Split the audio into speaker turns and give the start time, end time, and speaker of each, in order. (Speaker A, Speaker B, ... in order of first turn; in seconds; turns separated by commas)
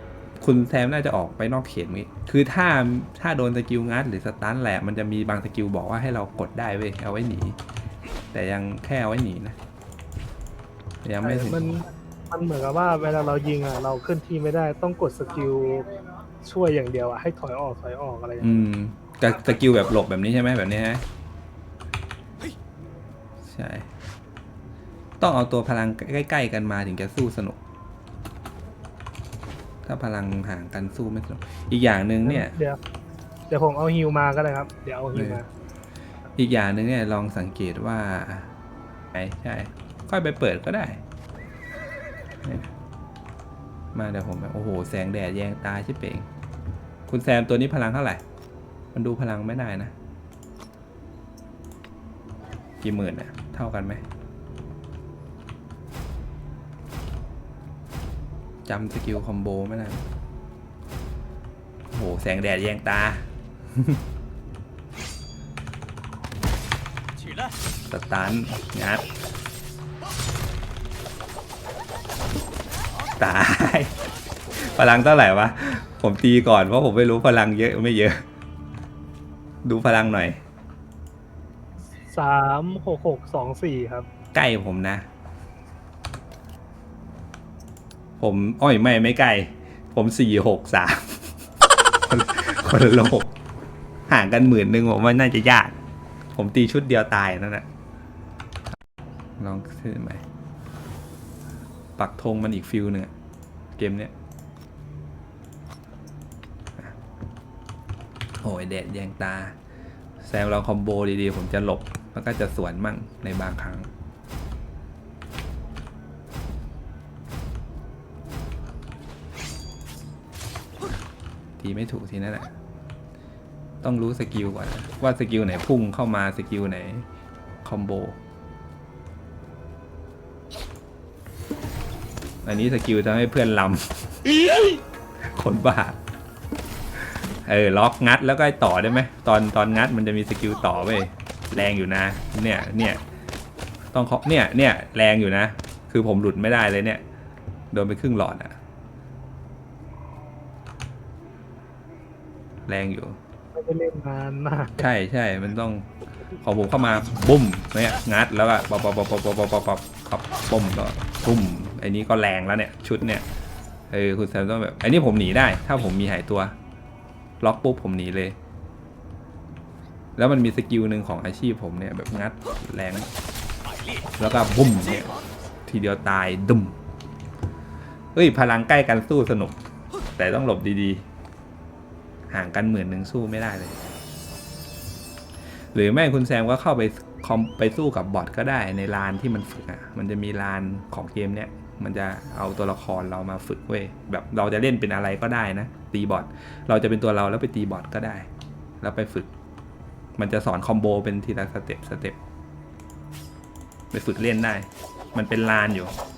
Speaker A: 0.4-7.6, Speaker A: 8.3-9.6, Speaker A: 11.0-11.8, Speaker B: 11.2-18.6, Speaker A: 18.4-21.0, Speaker A: 23.4-23.9, Speaker A: 25.2-27.6, Speaker A: 29.8-32.5, Speaker B: 32.2-32.8, Speaker B: 33.5-35.5, Speaker A: 35.1-35.4, Speaker A: 36.4-38.5, Speaker A: 39.1-41.0, Speaker A: 42.4-42.7, Speaker A: 43.9-46.3, Speaker A: 47.1-48.2, Speaker A: 48.9-49.9, Speaker A: 52.8-54.0, Speaker A: 58.6-60.1, Speaker A: 61.9-64.0, Speaker A: 67.9-69.0, Speaker A: 73.2-74.0, Speaker A: 74.5-78.2, Speaker A: 79.6-80.4, Speaker B: 82.1-84.1, Speaker A: 84.3-85.0, Speaker A: 88.2-91.3, Speaker A: 92.0-93.3, Speaker A: 94.1-95.8, Speaker A: 96.3-97.7, Speaker A: 99.4-100.2, Speaker A: 102.0-103.1, Speaker A: 103.7-104.1, Speaker A: 108.4-109.5, Speaker A: 110.2-113.9, Speaker A: 121.6-122.5, Speaker A: 123.8-127.0, Speaker A: 127.6-128.2, Speaker A: 132.4-134.4, Speaker A: 135.2-136.0, Speaker A: 137.3-143.0, Speaker A: 143.9-147.0, Speaker A: 147.7-148.5, Speaker A: 152.7-153.2, Speaker B: 153.5-154.9, Speaker A: 154.8-155.9, Speaker A: 156.4-163.2, Speaker A: 163.9-166.5, Speaker A: 167.4-168.3, Speaker A: 170.2-173.1, Speaker A: 174.2-176.8, Speaker A: 178.1-179.6, Speaker A: 180.2-181.0, Speaker A: 182.3-183.8, Speaker A: 185.7-198.3, Speaker A: 198.8-199.3, Speaker A: 200.2-202.2, Speaker A: 203.9-205.9